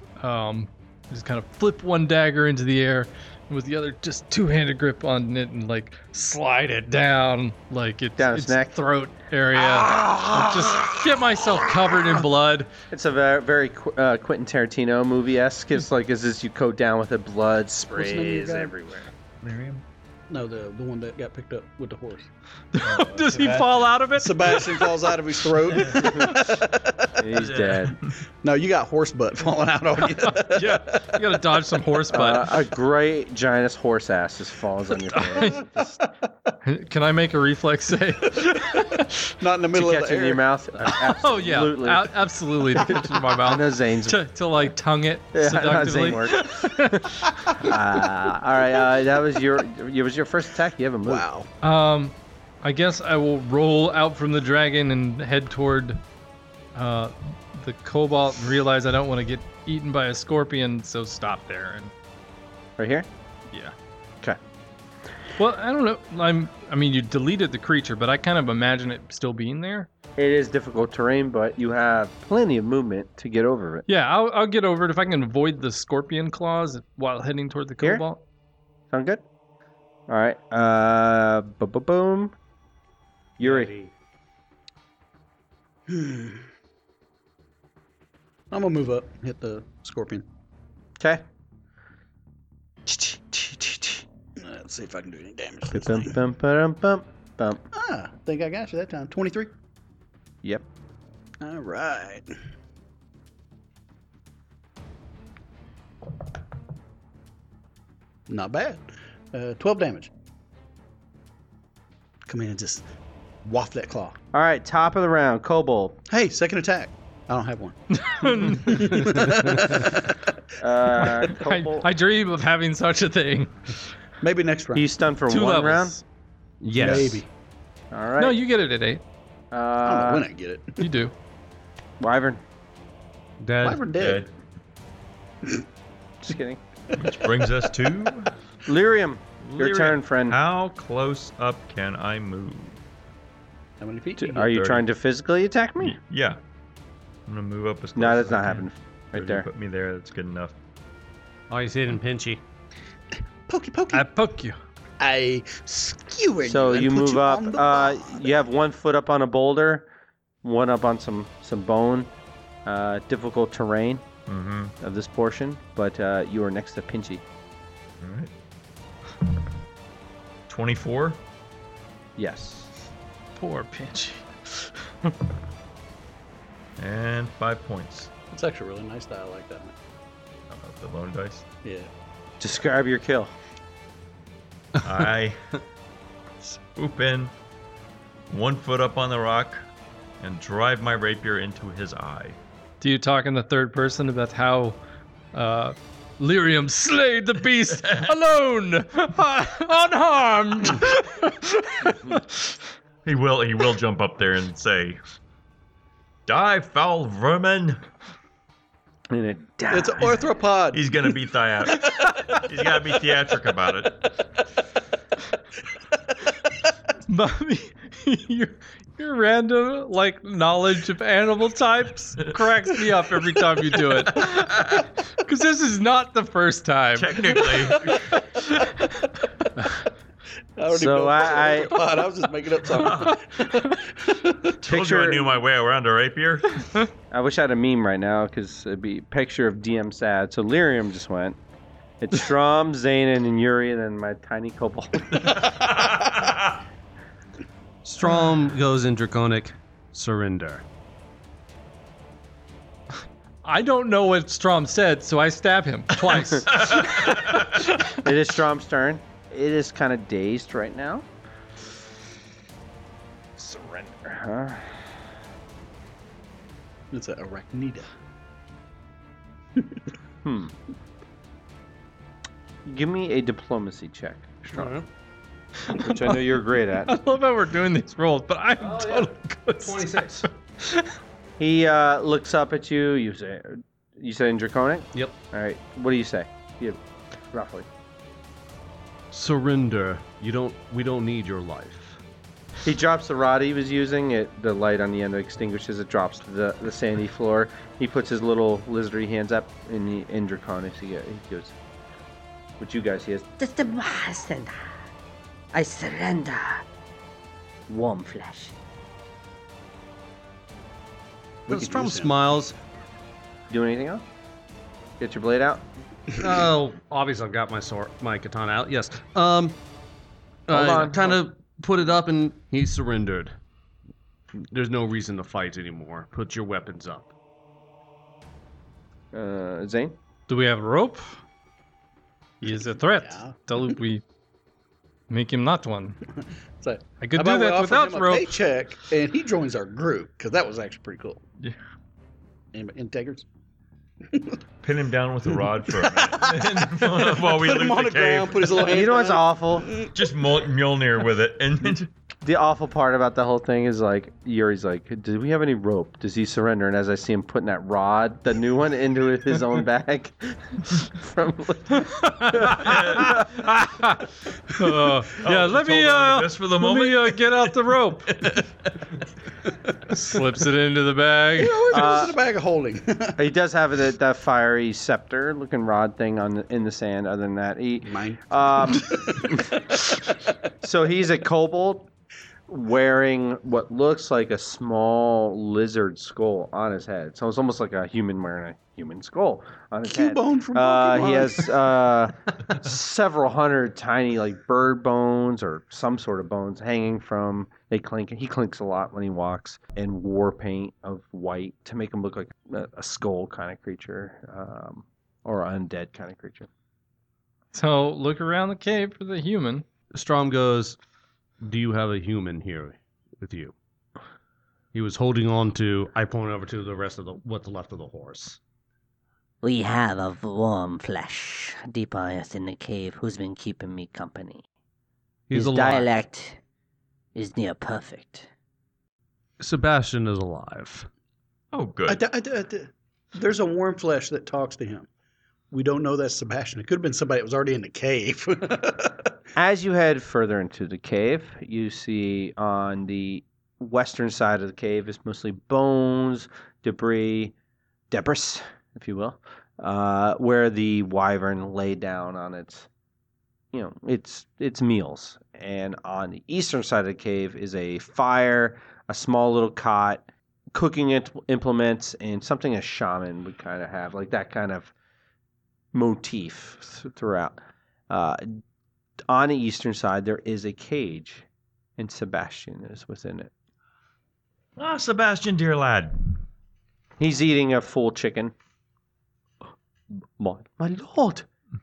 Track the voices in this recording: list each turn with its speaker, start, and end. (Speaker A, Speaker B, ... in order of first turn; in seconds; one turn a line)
Speaker A: 0.2-12.7
Speaker B: 8.2-8.8
Speaker B: 9.5-12.2
Speaker B: 12.9-19.1
Speaker C: 17.9-18.7
Speaker D: 19.4-19.8
Speaker C: 20.3-22.3
Speaker A: 22.7-25.0
Speaker D: 22.8-23.8
Speaker C: 24.2-27.2
Speaker A: 25.8-26.3
Speaker B: 27.2-28.0
Speaker D: 27.5-28.1
Speaker C: 28.4-31.4
Speaker A: 30.2-32.5
Speaker B: 32.1-36.0
Speaker A: 35.1-35.6
Speaker A: 36.6-39.2
Speaker C: 38.9-40.4
Speaker B: 39.7-42.1
Speaker A: 41.1-47.7
Speaker B: 42.7-44.2
Speaker B: 45.3-51.2
Speaker C: 51.0-51.5
Speaker A: 51.6-56.0
Speaker A: 56.8-61.9
Speaker B: 62.8-63.1
Speaker A: 65.4-69.9
Speaker B: 70.2-73.8
Speaker A: 73.9-78.2
Speaker B: 78.9-79.2
Speaker B: 80.1-82.3
Speaker B: 83.4-83.7
Speaker E: 83.4-83.9
Speaker C: 85.9-86.4
Speaker C: 88.5-90.2
Speaker B: 91.0-91.2
Speaker B: 92.9-94.0
Speaker C: 94.4-96.2
Speaker B: 95.7-97.6
Speaker C: 97.7-99.5
Speaker C: 101.4-102.3
Speaker C: 108.3-110.1
Speaker C: 112.3-112.9
Speaker C: 113.4-114.2
Speaker B: 114.3-116.0
Speaker C: 116.1-120.2
Speaker A: 117.9-119.3
Speaker E: 119.3-119.8
Speaker B: 120.6-121.9
Speaker A: 121.1-123.8
Speaker C: 124.2-124.8
Speaker B: 124.7-126.0
Speaker A: 125.3-126.0
Speaker E: 126.6-127.2
Speaker C: 126.8-127.3
Speaker B: 127.9-128.4
Speaker A: 128.2-129.0
Speaker B: 129.5-130.3
Speaker C: 129.8-130.9
Speaker A: 130.8-131.1
Speaker B: 132.0-132.4
Speaker E: 133.4-134.2
Speaker C: 133.6-134.3
Speaker D: 134.0-134.3
Speaker B: 136.2-136.6
Speaker D: 136.9-138.3
Speaker C: 137.0-137.7
Speaker B: 138.7-140.4
Speaker D: 139.4-142.8
Speaker C: 143.8-144.5
Speaker B: 144.2-146.0
Speaker D: 144.4-144.8
Speaker D: 145.8-146.4
Speaker D: 147.3-150.6
Speaker B: 148.0-149.5
Speaker E: 151.5-152.4
Speaker C: 153.5-154.1
Speaker A: 153.9-154.6
Speaker C: 155.0-158.3
Speaker B: 156.4-159.9
Speaker B: 160.4-162.1
Speaker B: 162.7-164.1
Speaker D: 164.3-164.7
Speaker B: 164.8-167.2
Speaker D: 168.0-168.3
Speaker D: 170.5-171.2
Speaker B: 172.2-172.7
Speaker A: 173.4-174.7
Speaker D: 176.8-178.1
Speaker C: 178.3-179.7
Speaker D: 180.5-181.4
Speaker C: 181.6-181.9
Speaker B: 182.4-183.3
Speaker D: 184.8-185.4
Speaker D: 186.4-187.3
Speaker D: 188.3-189.6
Speaker D: 190.2-192.4
Speaker A: 192.8-194.8
Speaker A: 195.3-202.6
Speaker D: 197.8-198.1
Speaker D: 203.1-205.0
Speaker D: 206.3-207.8
Speaker B: 209.1-210.2
Speaker C: 209.7-211.2
Speaker D: 210.7-214.1
Speaker C: 211.8-212.7
Speaker A: 217.1-227.5
Speaker D: 224.2-224.8
Speaker D: 227.0-228.2
Speaker C: 227.4-228.2
Speaker C: 230.6-234.6
Speaker B: 230.7-231.8
Speaker D: 232.8-233.2
Speaker D: 234.6-236.6
Speaker B: 234.7-235.4
Speaker A: 236.6-236.9
Speaker B: 237.1-241.4
Speaker B: 242.0-245.4
Speaker D: 245.3-246.6
Speaker E: 247.8-250.6
Speaker A: 253.4-257.1
Speaker D: 256.4-257.5
Speaker B: 258.0-261.1
Speaker B: 263.4-264.9
Speaker C: 266.9-267.9
Speaker C: 269.6-269.8
Speaker B: 270.2-270.5
Speaker B: 272.7-274.7
Speaker E: 274.6-274.9
Speaker A: 275.6-276.2
Speaker B: 275.8-276.9
Speaker A: 276.9-280.9
Speaker E: 278.6-280.3
Speaker B: 281.4-286.8
Speaker B: 287.3-287.7
Speaker E: 289.1-292.0
Speaker B: 292.6-301.6
Speaker B: 302.6-303.3
Speaker F: 303.4-304.8
Speaker F: 305.5-306.6
Speaker F: 307.7-308.5
Speaker C: 311.5-312.3
Speaker E: 311.5-312.6
Speaker B: 313.5-314.0
Speaker B: 315.0-315.7
Speaker E: 316.2-319.6
Speaker E: 320.5-323.4
Speaker B: 320.5-321.2
Speaker E: 324.4-327.1
Speaker B: 329.1-330.0
Speaker A: 330.3-331.2
Speaker A: 332.4-334.0
Speaker C: 332.9-333.3
Speaker A: 335.1-336.0
Speaker C: 336.6-341.2
Speaker A: 337.0-338.4
Speaker C: 342.5-343.3
Speaker C: 344.1-344.4
Speaker D: 344.6-348.6
Speaker C: 345.7-349.9
Speaker B: 348.6-349.8
Speaker D: 349.9-351.9
Speaker B: 352.2-363.2
Speaker A: 362.0-363.1
Speaker D: 362.6-363.7
Speaker A: 363.7-364.0
Speaker A: 364.6-368.3
Speaker D: 365.2-368.7
Speaker A: 369.9-371.7
Speaker C: 371.4-373.2
Speaker B: 371.7-372.2
Speaker B: 373.2-379.6
Speaker C: 377.9-379.5
Speaker B: 380.6-381.9
Speaker B: 382.5-406.5
Speaker C: 389.9-391.5
Speaker A: 407.5-409.7
Speaker E: 409.9-410.8
Speaker E: 411.4-413.5
Speaker E: 414.7-418.4
Speaker F: 419.4-424.4
Speaker E: 425.3-425.9
Speaker F: 425.3-426.4
Speaker F: 427.1-428.3
Speaker E: 429.4-430.9
Speaker D: 431.5-432.1
Speaker C: 431.9-434.9
Speaker C: 435.5-439.1
Speaker B: 439.4-447.3
Speaker B: 447.9-452.7
Speaker B: 453.5-464.7
Speaker B: 465.7-468.4
Speaker B: 469.1-471.3
Speaker B: 471.8-473.3
Speaker D: 474.6-476.2
Speaker B: 477.0-478.3
Speaker B: 480.2-481.3